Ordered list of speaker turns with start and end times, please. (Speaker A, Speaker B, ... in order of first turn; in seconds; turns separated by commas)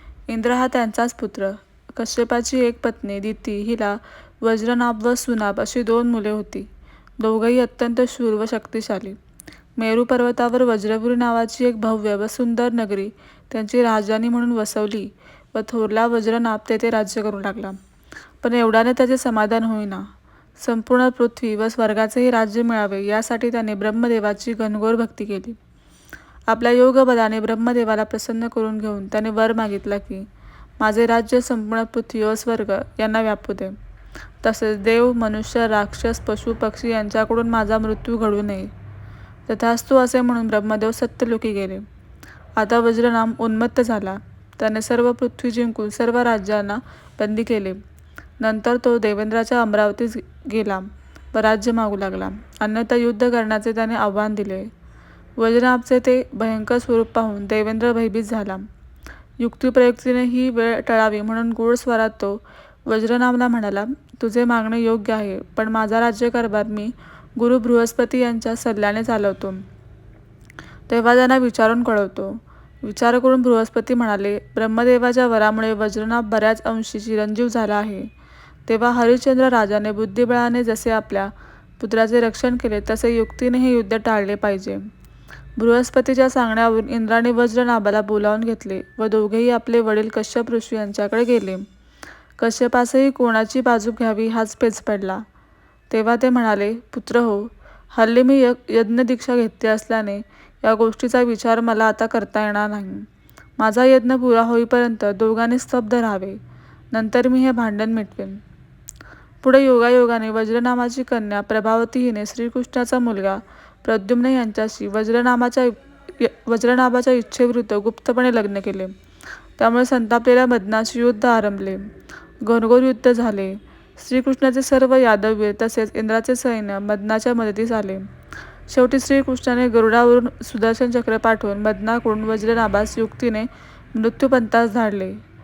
Speaker A: 0.3-6.7, Speaker A: 7.2-9.2, Speaker A: 9.8-17.8, Speaker A: 18.4-25.6, Speaker A: 26.5-30.3, Speaker A: 30.8-33.7, Speaker A: 34.4-38.7, Speaker A: 39.5-41.8, Speaker A: 42.6-47.8, Speaker A: 48.4-54.7, Speaker A: 55.4-58.7, Speaker A: 59.4-69.6, Speaker A: 70.9-78.1, Speaker A: 78.7-84.8, Speaker A: 85.6-91.6, Speaker A: 92.4-95.2, Speaker A: 95.9-103.0, Speaker A: 103.6-106.4, Speaker A: 106.9-108.4, Speaker A: 109.4-118.9, Speaker A: 119.6-121.9, Speaker A: 122.4-128.1, Speaker A: 128.7-135.2